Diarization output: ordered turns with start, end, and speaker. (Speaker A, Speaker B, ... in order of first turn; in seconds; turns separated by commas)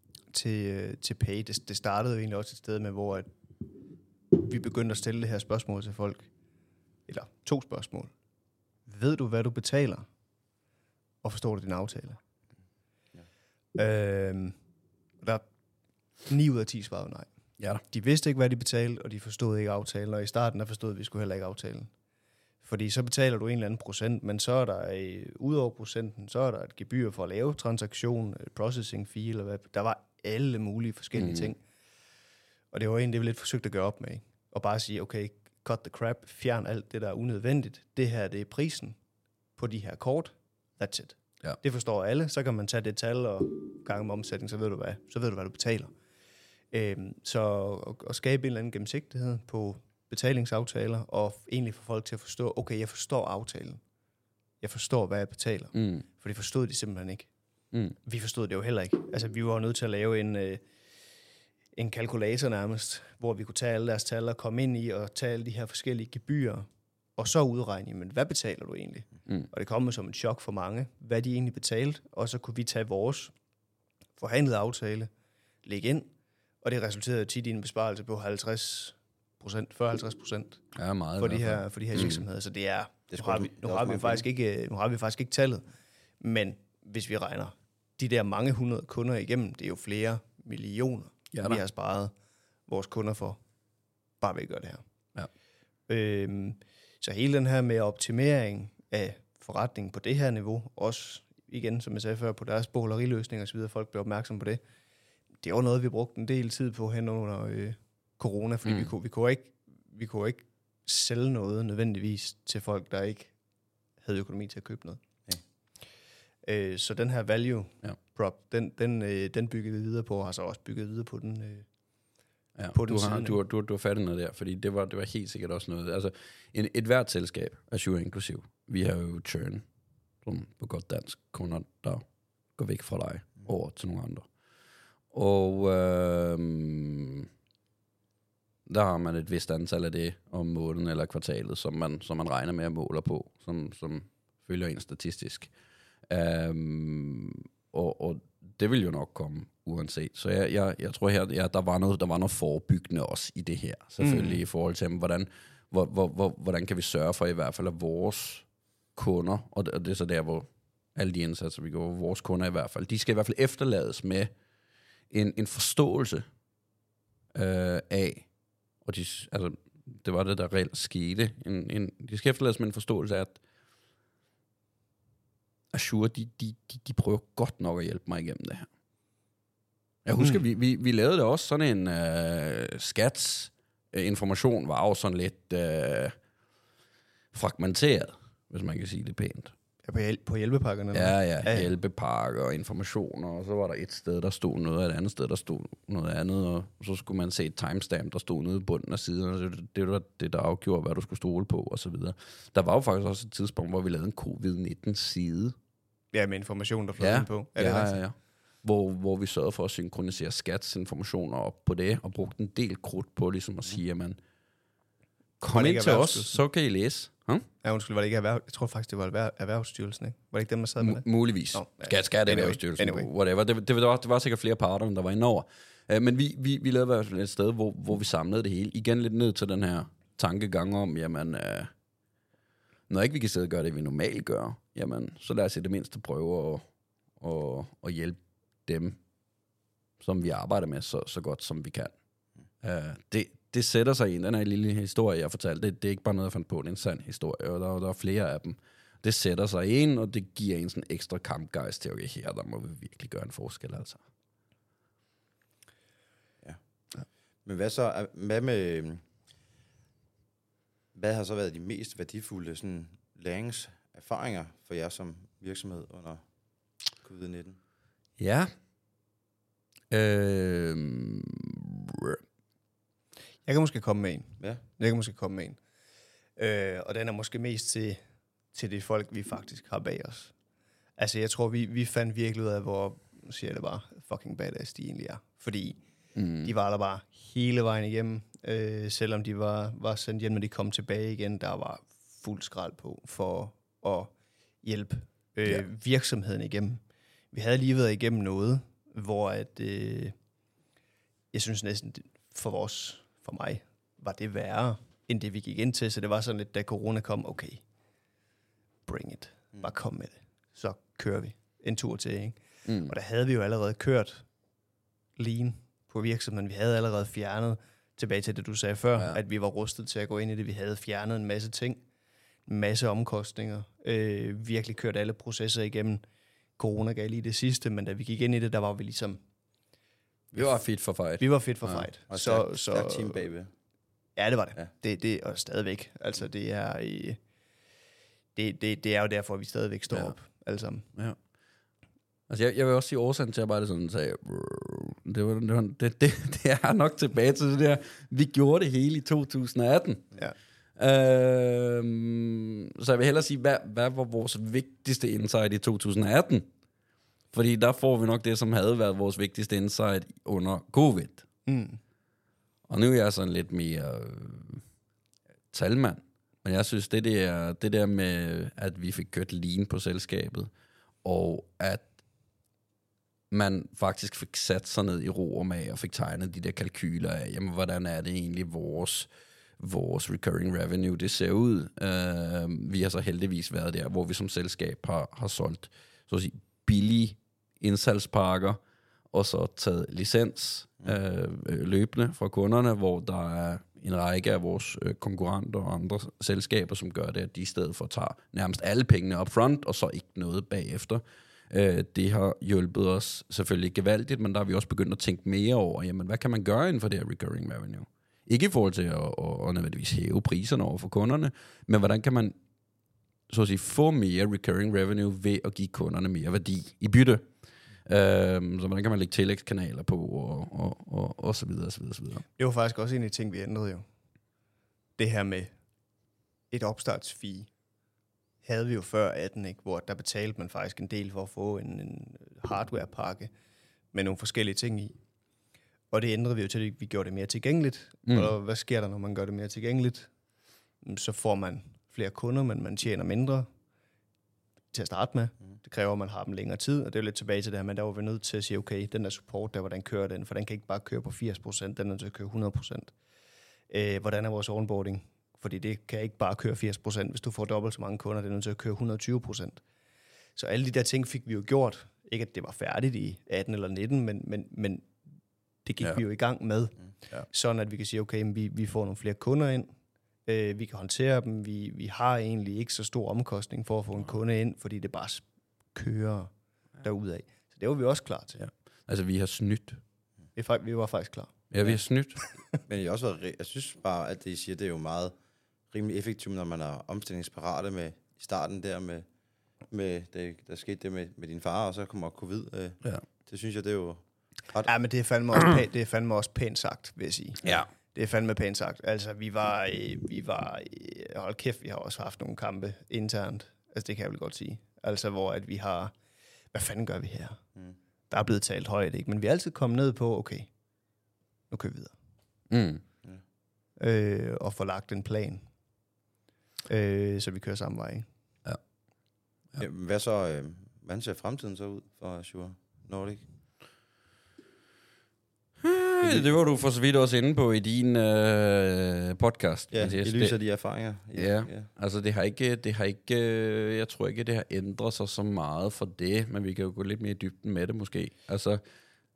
Speaker A: 0.3-3.3, Speaker A: 4.3-6.3, Speaker A: 7.1-8.1, Speaker A: 8.8-10.1, Speaker A: 11.2-12.2, Speaker A: 13.7-14.5, Speaker A: 16.2-17.3, Speaker A: 17.9-21.9, Speaker A: 22.6-31.6, Speaker B: 31.1-31.5, Speaker A: 32.7-39.0, Speaker A: 39.6-45.9, Speaker A: 46.7-53.8, Speaker A: 54.6-57.3, Speaker B: 55.7-56.0, Speaker A: 58.0-60.6, Speaker A: 61.8-73.3, Speaker A: 74.2-75.1, Speaker A: 75.6-76.1, Speaker A: 76.6-80.6, Speaker B: 80.8-82.2, Speaker A: 81.2-85.7, Speaker C: 83.1-84.2, Speaker A: 86.2-92.1, Speaker B: 91.3-91.6, Speaker A: 92.7-93.4, Speaker A: 94.2-94.8, Speaker A: 95.9-104.6, Speaker A: 105.4-113.3, Speaker B: 108.6-108.9, Speaker A: 114.0-115.0, Speaker A: 116.4-121.6, Speaker B: 122.6-129.6, Speaker A: 122.7-123.3, Speaker B: 130.2-132.0, Speaker B: 132.6-134.3, Speaker B: 135.1-137.3, Speaker B: 138.7-145.5, Speaker B: 146.1-164.3, Speaker A: 154.0-154.4, Speaker B: 165.1-166.2, Speaker B: 167.3-168.3, Speaker B: 168.8-173.4, Speaker B: 175.7-178.7, Speaker B: 180.0-186.1, Speaker B: 187.3-189.5, Speaker A: 189.8-191.7, Speaker B: 190.9-205.5, Speaker A: 206.1-208.0, Speaker B: 207.0-214.2, Speaker B: 215.4-217.4, Speaker A: 215.5-216.4, Speaker A: 217.6-223.1, Speaker B: 220.8-231.7, Speaker B: 232.9-236.7, Speaker B: 237.2-239.0, Speaker B: 240.0-241.9, Speaker B: 242.6-254.0, Speaker C: 257.4-259.0, Speaker C: 260.9-266.3, Speaker C: 267.0-267.6, Speaker B: 268.2-268.5, Speaker B: 269.9-272.2, Speaker A: 273.4-275.6, Speaker A: 276.4-278.0, Speaker A: 278.5-280.3, Speaker A: 281.0-285.8, Speaker B: 286.1-286.5, Speaker A: 286.4-296.8, Speaker A: 297.3-300.1, Speaker A: 301.3-307.6, Speaker A: 308.9-314.2, Speaker B: 312.6-312.9, Speaker A: 315.2-321.8, Speaker A: 322.5-326.0, Speaker A: 326.6-329.2, Speaker A: 330.3-330.6, Speaker B: 330.3-331.9, Speaker A: 331.2-333.2, Speaker C: 332.1-333.5, Speaker A: 334.1-337.2, Speaker A: 338.3-340.9, Speaker B: 339.9-340.1, Speaker B: 342.3-350.1, Speaker B: 350.8-356.5, Speaker B: 357.3-361.2, Speaker A: 361.4-361.8, Speaker B: 362.7-364.6, Speaker B: 365.5-370.5, Speaker B: 371.0-371.9, Speaker B: 373.3-388.6, Speaker B: 389.1-412.4, Speaker B: 413.3-417.2, Speaker B: 417.9-422.2, Speaker A: 422.4-423.8, Speaker A: 425.0-425.5, Speaker A: 426.5-427.5, Speaker A: 428.4-433.3, Speaker A: 433.9-435.0, Speaker A: 435.9-440.1, Speaker B: 438.1-438.3, Speaker A: 440.8-443.5, Speaker A: 444.7-452.9, Speaker A: 453.7-459.6, Speaker A: 460.4-464.9, Speaker A: 465.6-469.7, Speaker A: 470.2-478.4, Speaker B: 478.4-479.8, Speaker A: 480.3-481.5, Speaker B: 481.5-482.2, Speaker A: 482.2-482.6, Speaker C: 482.6-485.1, Speaker C: 485.7-489.1, Speaker C: 489.7-494.7, Speaker A: 494.6-505.9, Speaker B: 497.4-497.7, Speaker A: 506.5-507.4, Speaker A: 508.1-510.5, Speaker A: 511.5-511.9, Speaker B: 512.5-512.8, Speaker A: 513.8-515.4, Speaker A: 516.7-518.1, Speaker C: 519.6-523.2, Speaker B: 525.6-530.4, Speaker C: 526.0-526.3, Speaker C: 529.7-531.7, Speaker B: 531.1-538.6